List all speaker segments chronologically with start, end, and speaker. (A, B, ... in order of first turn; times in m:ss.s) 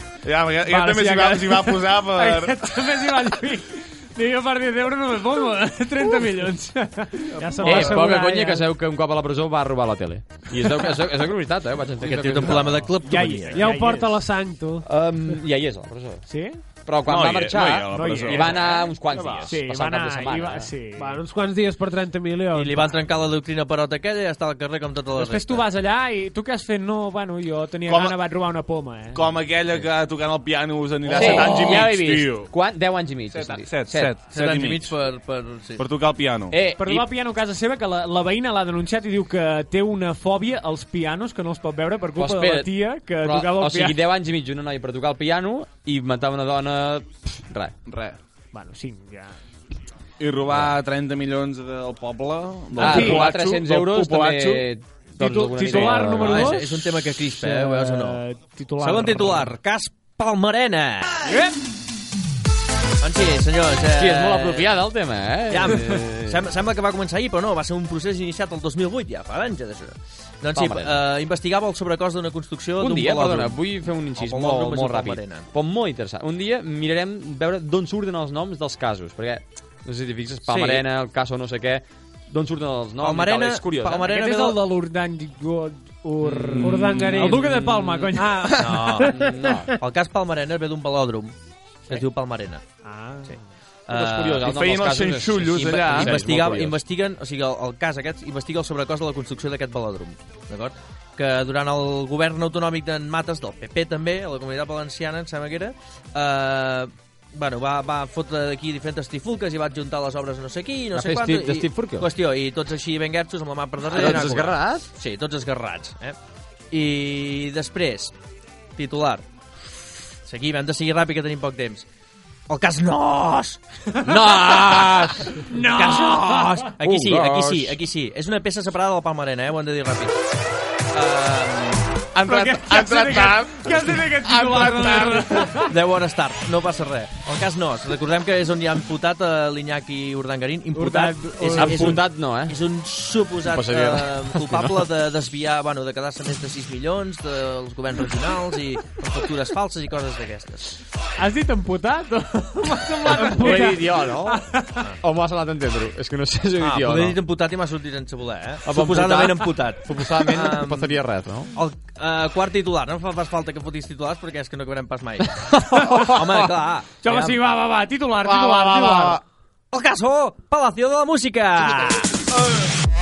0:00.2-0:02.7 A
0:00.6-0:08.2 B
0:06.0-0:06.5 C
0:07.4-0:08.6 C
0:07.6-0:12.9 D
0:12.0-0:13.7 E
0:13.0-0:14.2 B
0:13.5-0:14.9 C
0:14.8-0:16.2 D
0:16.3-0:16.6 B
0:16.9-0:20.7 D
0:17.0-0:19.5 A
0:17.7-0:21.2 B
0:21.0-0:22.9 C
0:22.5-0:25.6 E
0:25.2-0:29.3 B
0:27.9-0:28.2 A
0:29.1-0:32.5 A
0:31.1-0:34.1 D
0:31.2-0:32.0 E
0:33.3-0:35.0 A
0:34.3-0:35.8 E
0:35.8-0:36.6 A
0:36.5-0:37.1 D
0:36.8-0:44.0 B
0:42.2-0:47.9 D
0:47.9-0:48.2 A
0:48.5-0:49.4 B
0:50.2-0:54.5 A
0:50.5-0:50.8 D
0:52.8-0:56.6 D
0:52.8-0:54.5 B
0:55.2-0:59.5 B
0:55.7-0:58.2 E
0:58.8-1:01.3 E
1:01.2-1:01.6 B
1:03.0-1:04.8 E
1:03.9-1:06.4 D
1:05.5-1:13.6 E
1:10.6-1:11.0 D
1:12.8-1:24.1 D
1:14.1-1:15.5 E
1:20.5-1:20.8 E
1:23.0-1:24.6 E
1:24.1-1:28.9 B
1:26.3-1:28.2 D
1:26.6-1:27.2 A
1:26.6-1:27.6 C
1:28.2-1:29.6 C
1:28.6-1:29.2 E
1:29.0-1:29.7 D
1:29.7-1:31.3 E
1:31.9-1:32.6 E
1:32.8-1:33.4 B
1:33.9-1:34.7 E
1:33.9-1:36.8 D
1:34.4-1:36.2 A
1:35.6-1:56.2 E
1:50.9-1:52.1 D
1:53.8-1:54.9 D
1:56.7-1:58.1 E
1:58.8-1:59.2 E
2:00.2-2:01.8 E
2:02.5-2:10.2 E
2:03.9-2:04.4 B
2:05.4-2:06.7 B
2:06.8-2:07.8 D
2:10.9-2:12.0 E
2:12.2-2:15.6 A
2:12.2-2:15.7 B
2:15.6-2:30.8 E
2:20.8-2:22.0 B
2:21.0-2:21.7 C
2:21.6-2:22.6 D
2:23.4-2:24.9 D
2:31.2-2:34.8 B
2:33.1-2:34.5 D
2:33.3-2:33.7 C
2:35.0-2:37.2 D
2:36.6-2:41.0 E
2:38.6-2:41.5 D
2:41.5-2:47.3 E
2:45.7-2:46.2 B
2:47.0-2:49.2 B
2:48.3-2:49.2 A
2:49.7-2:52.2 E